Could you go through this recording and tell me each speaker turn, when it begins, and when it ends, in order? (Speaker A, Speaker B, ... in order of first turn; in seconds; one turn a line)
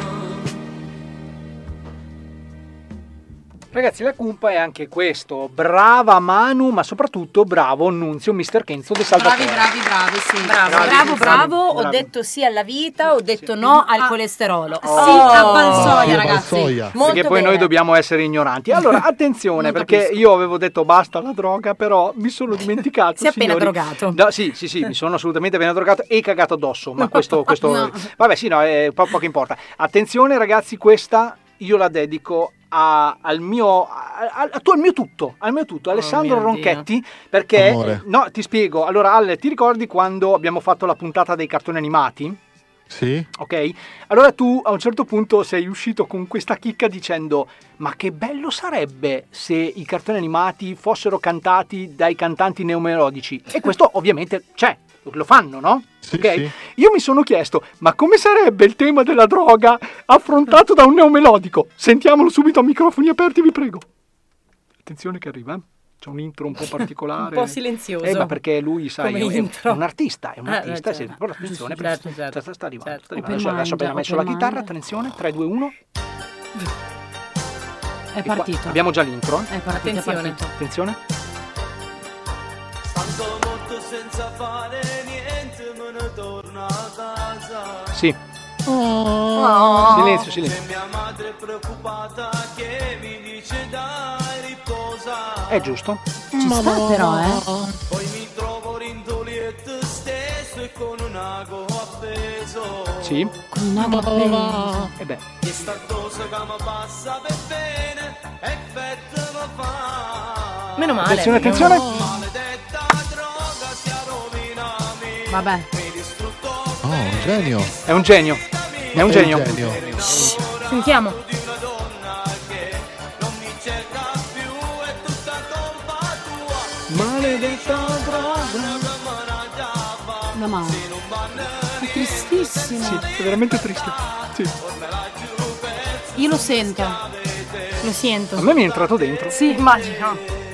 Speaker A: 3.7-9.7
Speaker B: 9.1-11.5
Speaker C: 10.4-17.7
Speaker A: 10.7-12.1
Speaker B: 13.6-14.1
Speaker B: 14.8-16.8
Speaker A: 14.9-15.6
Speaker D: 15.4-17.0
Speaker A: 17.0-42.4
Speaker C: 19.6-20.1
Speaker C: 23.2-24.2
Speaker C: 27.0-27.4
Speaker B: 27.6-28.0
Speaker C: 35.9-36.9
Speaker D: 37.5-38.0
Speaker D: 42.9-43.3
Speaker A: 43.4-63.8
Speaker D: 56.0-56.5
Speaker A: 64.8-75.7
Speaker C: 67.2-68.3
Speaker C: 69.0-69.8
Speaker C: 70.4-73.3
Speaker B: 73.2-74.7
Speaker B: 78.1-78.8
Speaker A: 78.2-79.5
Speaker B: 79.5-80.5
Speaker C: 79.7-80.4
Speaker A: 80.5-81.0
Speaker E: 82.9-87.6
Speaker A: 87.9-88.2
Speaker D: 88.7-90.1
Speaker C: 89.3-90.2
Speaker A: 89.9-90.6
Speaker E: 90.5-95.4
Speaker A: 95.5-96.0
Speaker B: 96.3-97.4
Speaker D: 96.3-97.7
Speaker E: 97.9-103.1
Speaker A: 103.0-103.3
Speaker B: 103.5-104.9
Speaker D: 103.8-104.9
Speaker A: 105.0-105.2
Speaker E: 105.4-110.3
Speaker C: 110.8-111.8
Speaker A: 111.0-111.8
Speaker D: 111.4-112.2
Speaker E: 112.1-115.3
Speaker B: 115.3-115.7
Speaker E: 115.8-117.5
Speaker D: 116.8-117.7
Speaker A: 117.8-120.0
Speaker D: 119.0-119.9
Speaker E: 119.8-120.8
Speaker C: 120.2-121.2
Speaker E: 121.3-126.8
Speaker A: 126.9-128.8
Speaker E: 127.3-130.2
Speaker B: 130.3-130.9
Speaker E: 130.8-132.2
Speaker B: 131.7-133.0
Speaker A: 132.8-134.5
Speaker E: 134.8-136.2
Speaker B: 136.2-137.0
Speaker E: 136.9-137.5
Speaker C: 137.8-138.5
Speaker A: 138.4-139.4
Speaker B: 139.3-140.1
Speaker C: 139.4-140.2